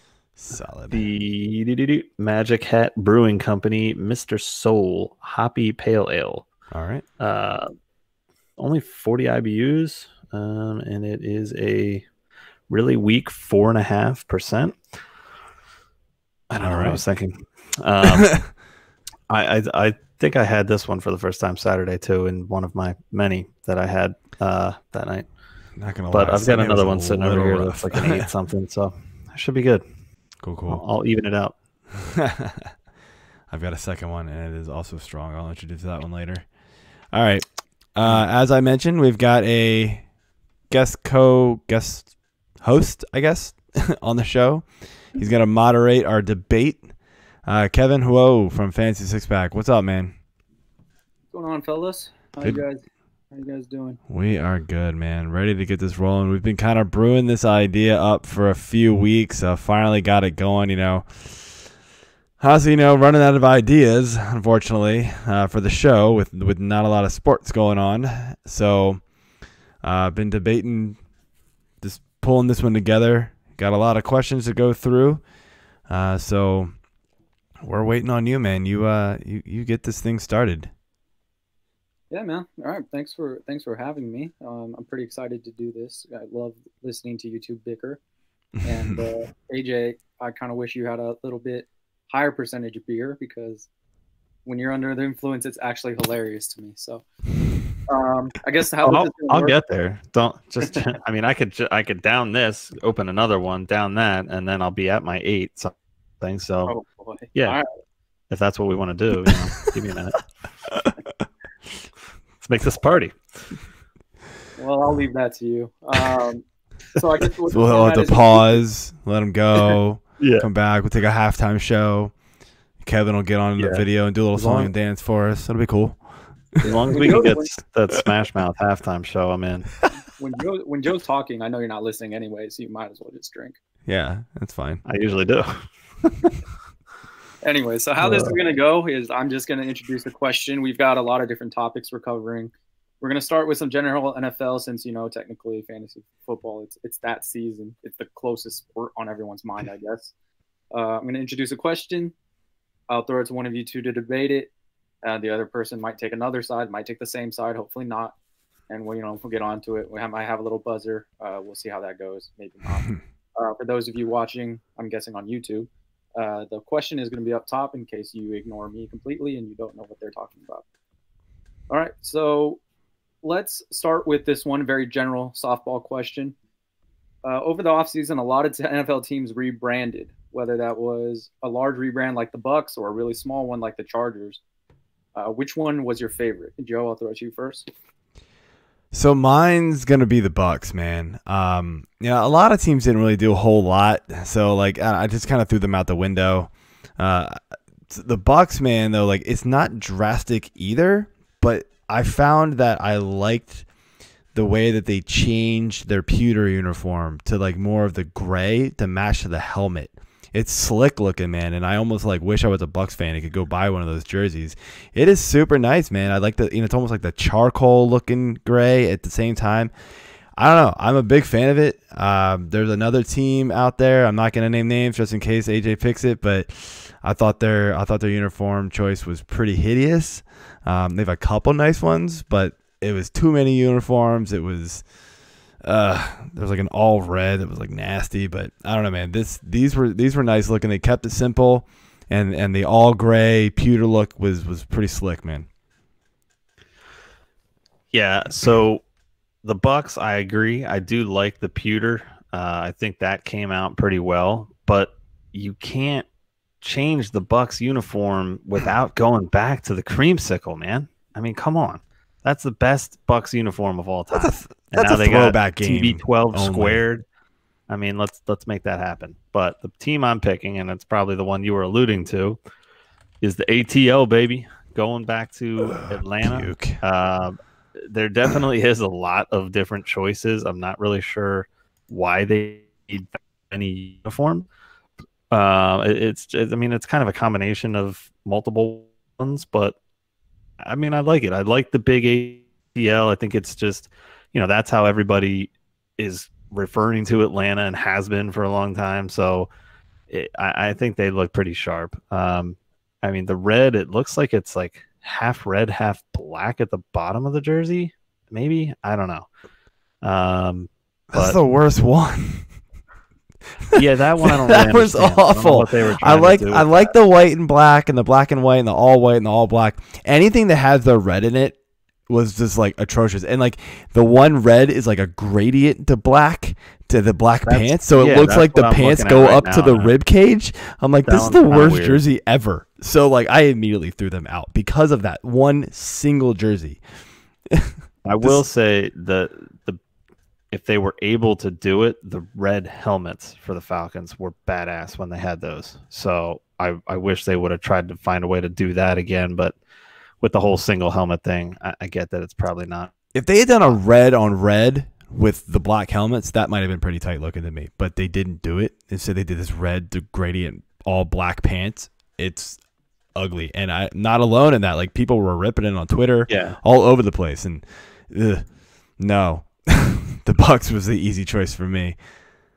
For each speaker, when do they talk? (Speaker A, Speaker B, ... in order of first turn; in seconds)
Speaker A: 0.4-1.0, 6.7-7.0, 16.6-17.0, 18.1-18.4, 25.8-28.3, 30.4-30.8, 31.9-32.7, 33.5-36.5, 37.1-40.1, 40.7-46.9, 47.5-50.1, 54.1-61.7, 62.4-69.1, 69.8-71.0, 71.8-75.2, 75.9-76.7, 77.6-80.7, 88.7-89.0, 117.5-122.1, 122.8-126.0, 133.9-134.8, 188.9-203.7, 204.3-219.7, 220.4-234.8, 235.6-245.5, 264.1-266.8, 275.7-276.8, 311.1-312.5, 313.7-321.6, 322.1-336.8, 337.5-338.4, 353.1-362.6, 363.1-368.4, 369.0-372.0
Speaker B: 0.9-6.5, 7.2-7.7, 8.6-12.1, 12.7-14.8, 16.5-18.4, 19.3-25.3, 26.1-29.8, 30.7-31.6, 98.8-106.7, 108.3-110.2, 112.4-113.2, 120.2-120.5, 123.6-124.7, 126.6-129.7, 134.8-135.6, 138.0-138.3, 247.9-248.8, 249.4-256.1, 256.6-267.0, 267.7-272.4, 273.2-284.5, 285.3-289.8, 290.6-299.5, 300.1-309.3, 310.0-311.4, 313.8-316.9, 327.5-329.9, 331.1-332.0, 338.1-339.8, 340.5-349.6, 350.2-352.9, 366.3-366.6
Speaker C: 51.3-54.0, 82.1-88.0, 88.6-93.7, 94.5-97.0, 97.9-99.6, 106.7-107.7, 114.6-118.6, 126.7-127.5, 130.2-133.6, 137.4-150.1, 150.7-152.1, 152.9-154.5, 155.0-158.2, 158.7-170.6, 171.7-172.6, 173.2-176.3, 177.2-184.4, 185.2-187.7